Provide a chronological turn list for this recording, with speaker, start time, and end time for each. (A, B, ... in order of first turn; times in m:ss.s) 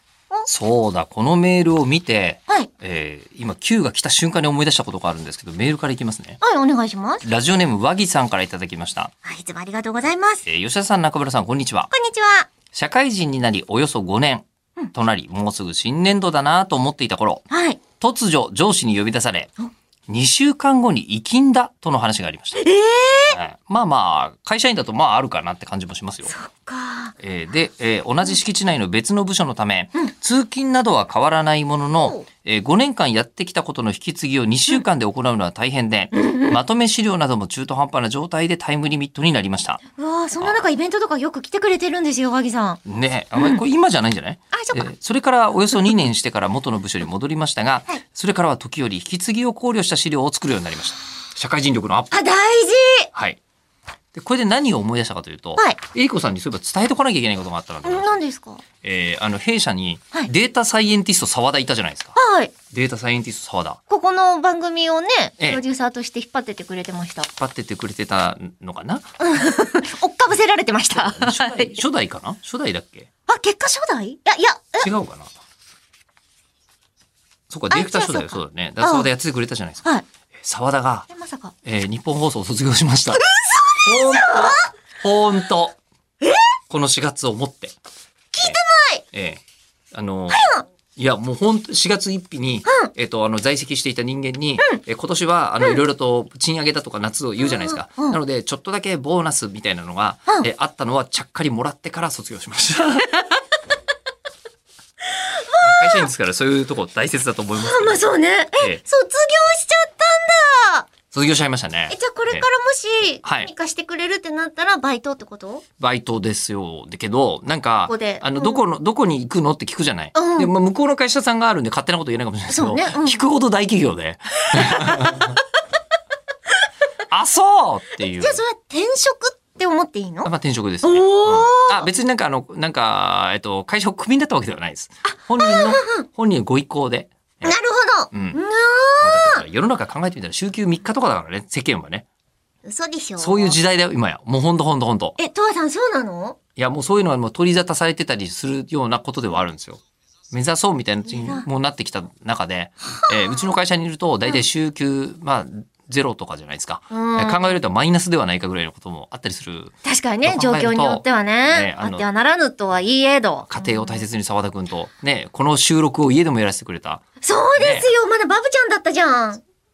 0:00.4-0:06.4 A
0:06.4-0:07.2 B
0:07.2-0:09.1 A
0:09.2-0:10.4 B
0:10.4-0:11.9 A
0:11.9-0:12.5 B
0:12.7-0:17.4 A
0:17.5-0:17.8 B
0:18.0-0:19.5 A
0:20.1-0:22.6 A
0:22.6-0:23.4 B
0:23.3-0:26.3 A
0:26.2-0:27.1 B
0:27.2-0:39.8 A
0:31.9-0:32.2 B
0:36.1-0:36.6 B
0:40.0-0:42.8 B
0:40.4-0:40.6 A
0:42.8-0:52.2 A
0:44.5-0:44.9 B
0:52.1-0:53.1 B
0:53.1-0:53.4 A
0:54.1-0:58.2 A
0:57.8-0:58.6 B
0:58.8-1:02.2 A
1:02.1-1:02.5 B
1:02.7-1:03.8 A
1:03.9-1:07.3 B
1:07.4-1:09.1 A
1:09.2-1:11.8 B
1:10.9-1:13.1 A
1:13.3-1:14.9 B
1:14.8-1:15.3 A
1:17.5-1:19.8 A
1:17.7-1:19.1 B
1:20.4-1:21.1 A
1:21.1-1:21.5 B
1:21.6-1:23.2 A
1:23.1-1:24.7 B
1:23.8-1:25.8 A
1:26.7-1:27.7 A
1:28.3-1:29.0 B
1:29.1-1:29.4 A
1:29.9-1:43.4 A
1:30.3-1:30.6 B
1:32.6-1:32.9 B
1:37.4-1:38.2 B
1:45.3-1:46.1 B
1:45.6-1:48.0 A
1:47.6-1:50.9 B
1:48.6-1:48.8 A
1:51.1-1:52.5 A
1:51.9-1:55.6 B
1:53.2-1:53.5 A
1:55.8-2:05.4 A
1:57.9-1:58.6 B
2:00.1-2:00.5 B
2:02.5-2:03.2 B
2:04.5-2:05.3 B
2:07.1-2:08.4 A
2:08.2-2:10.3 B
2:10.2-2:17.5 A
2:10.8-2:11.9 B
2:15.4-2:16.0 B
2:17.4-2:19.4 B
2:18.1-2:18.4 A
2:19.0-2:22.0 A
2:22.6-2:23.6 B
2:23.2-2:25.2 A
2:25.2-2:26.4 B
2:26.6-2:29.8 A
2:30.3-2:39.7 A
2:31.1-2:31.5 B
2:36.9-2:37.6 B
2:39.8-2:44.0 B
2:40.2-2:42.0 A
2:43.5-2:47.0 A
2:47.2-2:49.4 B
2:47.6-2:47.9 A